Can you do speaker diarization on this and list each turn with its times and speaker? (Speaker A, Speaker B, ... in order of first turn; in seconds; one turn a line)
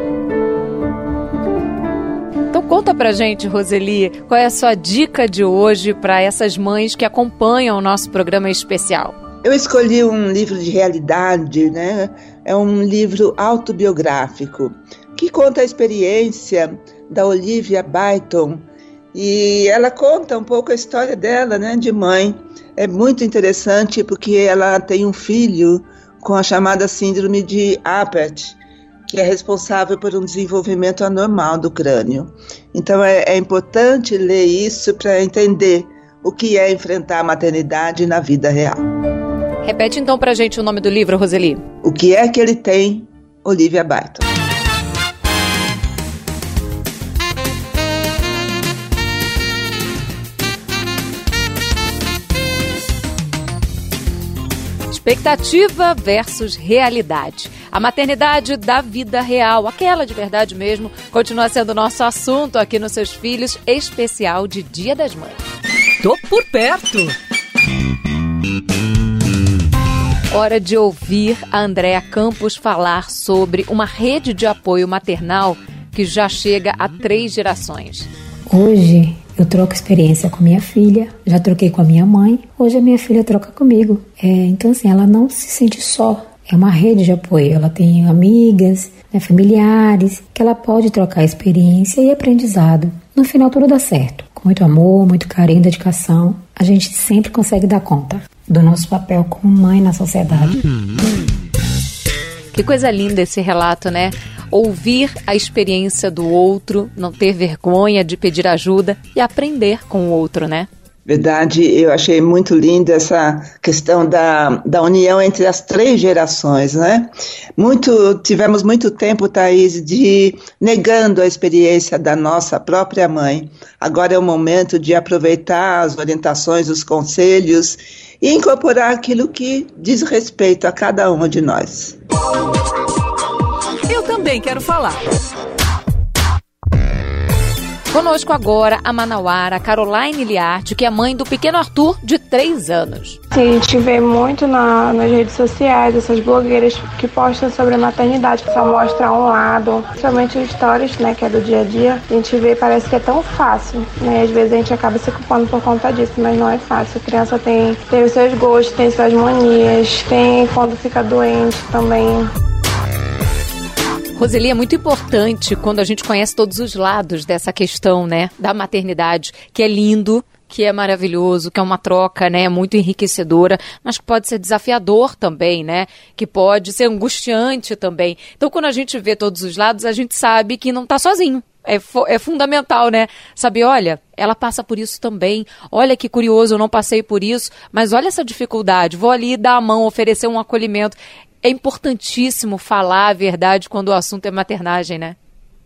Speaker A: 2.5-9.2
Speaker B: 9.4-38.8
Speaker A: 39.6-41.6
Speaker B: 41.8-44.2
Speaker A: 54.9-65.4
Speaker C: 66.0-67.1
Speaker A: 70.3-78.1
Speaker D: 78.5-100.6
Speaker A: 102.5-110.7
Speaker B: 111.1-131.9
Speaker C: 133.9-135.0
Speaker A: 137.9-143.2
Speaker E: 143.4-162.0
Speaker A: 164.2-195.2